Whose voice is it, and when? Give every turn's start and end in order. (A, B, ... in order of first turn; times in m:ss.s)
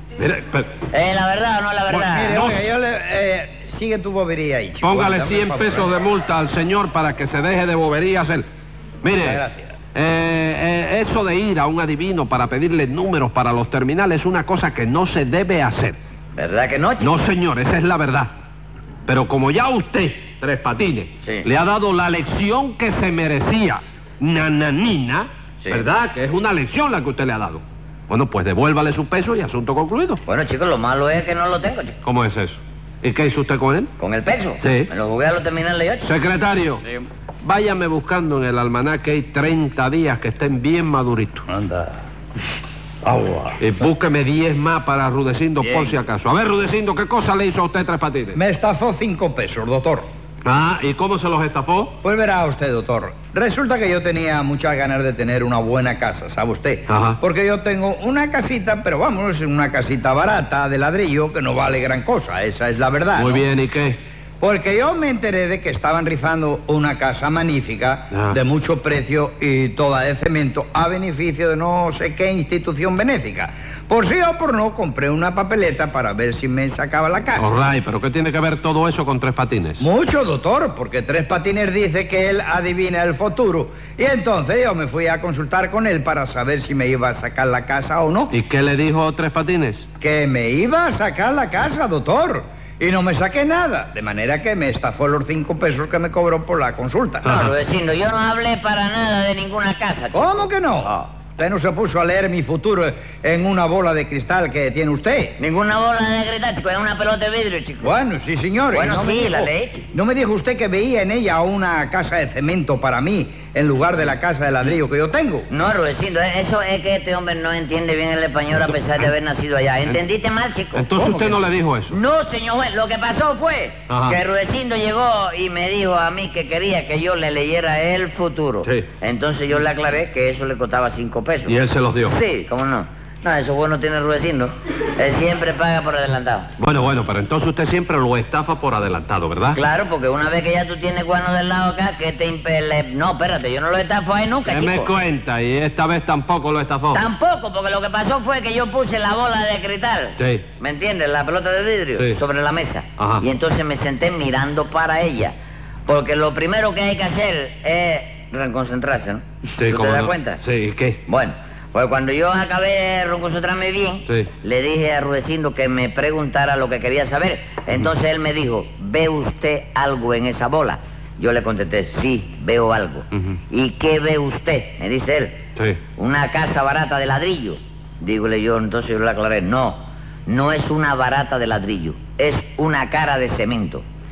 0:00.2-0:00.8 A
0:00.9-0:02.4 B
0:01.9-0:05.9 C
0:02.2-0:02.7 A
0:04.8-0:08.4 A
0:09.0-0:09.4 A
0:09.2-0:09.8 C
0:09.9-0:16.0 A
0:16.4-0:17.1 B
0:17.0-0:18.3 A
0:19.1-0:30.2 A
0:21.2-0:21.5 B
0:30.3-0:32.0 B
0:32.0-0:33.9 A
0:34.0-0:36.1 B
0:34.6-0:34.9 A
0:36.0-0:36.8 A
0:37.4-0:41.4 A
0:41.5-0:42.0 C
0:43.0-0:43.6 C
0:43.6-0:48.4 A
0:48.3-0:50.1 C
0:50.4-0:52.0 A
0:52.0-1:03.4 C
0:56.9-0:57.2 A
1:03.1-1:04.0 A
1:04.4-1:17.5 C
1:08.1-1:08.4 A
1:17.4-1:19.8 A
1:19.8-1:28.3 C
1:28.3-1:29.8 A
1:30.0-1:37.4 C
1:37.2-1:37.5 A
1:37.2-1:40.9 B
1:40.1-1:45.4 C
1:45.4-1:47.9 B
1:47.8-1:55.5 C
1:48.7-1:49.9 B
1:55.5-2:01.3 B
2:00.7-2:02.0 A
2:01.9-2:16.5 B
2:03.9-2:04.2 A
2:08.6-2:08.9 A
2:11.4-2:12.2 A
2:16.6-2:19.6 A
2:19.5-2:24.9 B
2:24.4-2:27.1 A
2:26.9-2:35.3 B
2:30.2-2:30.4 A
2:31.9-2:32.2 A
2:33.0-2:33.2 A
2:35.8-2:40.4 B
2:39.6-2:41.0 A
2:41.1-2:55.4 B
2:44.0-2:44.3 A
2:56.0-3:03.8 B